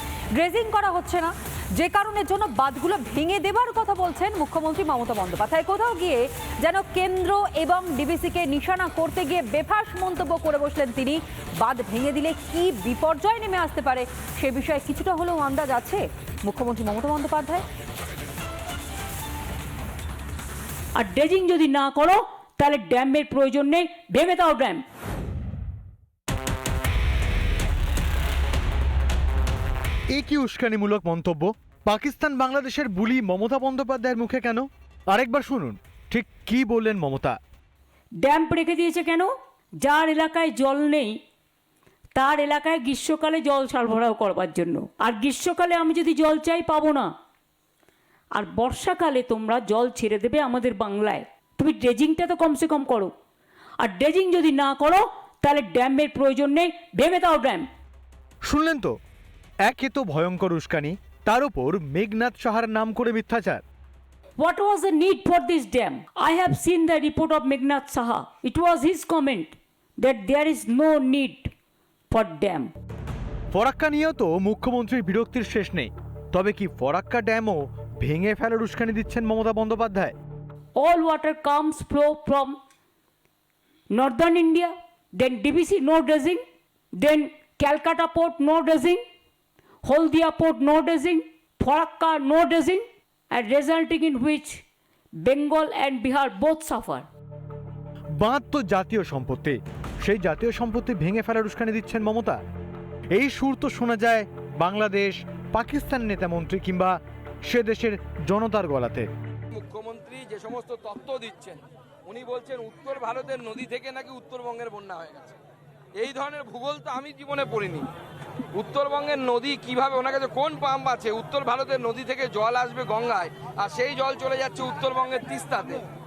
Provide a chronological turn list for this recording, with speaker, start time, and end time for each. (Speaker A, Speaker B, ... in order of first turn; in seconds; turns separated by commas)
Speaker A: 0.4-17.6, Speaker B: 21.0-24.8, Speaker C: 30.1-37.4, Speaker B: 38.2-39.3, Speaker B: 39.8-41.2, Speaker B: 42.2-47.1, Speaker B: 48.4-53.1, Speaker B: 53.8-57.7, Speaker C: 58.5-58.9, Speaker C: 59.7-63.6, Speaker B: 64.4-71.5, Speaker B: 72.1-72.7, Speaker C: 73.5-80.2, Speaker B: 80.8-82.6, Speaker B: 83.9-86.4, Speaker B: 87.0-89.0, Speaker B: 89.8-94.6, Speaker B: 95.2-97.1, Speaker C: 98.2-102.4, Speaker C: 103.2-109.1, Speaker D: 109.5-115.4, Speaker D: 116.0-117.9, Speaker D: 118.5-125.8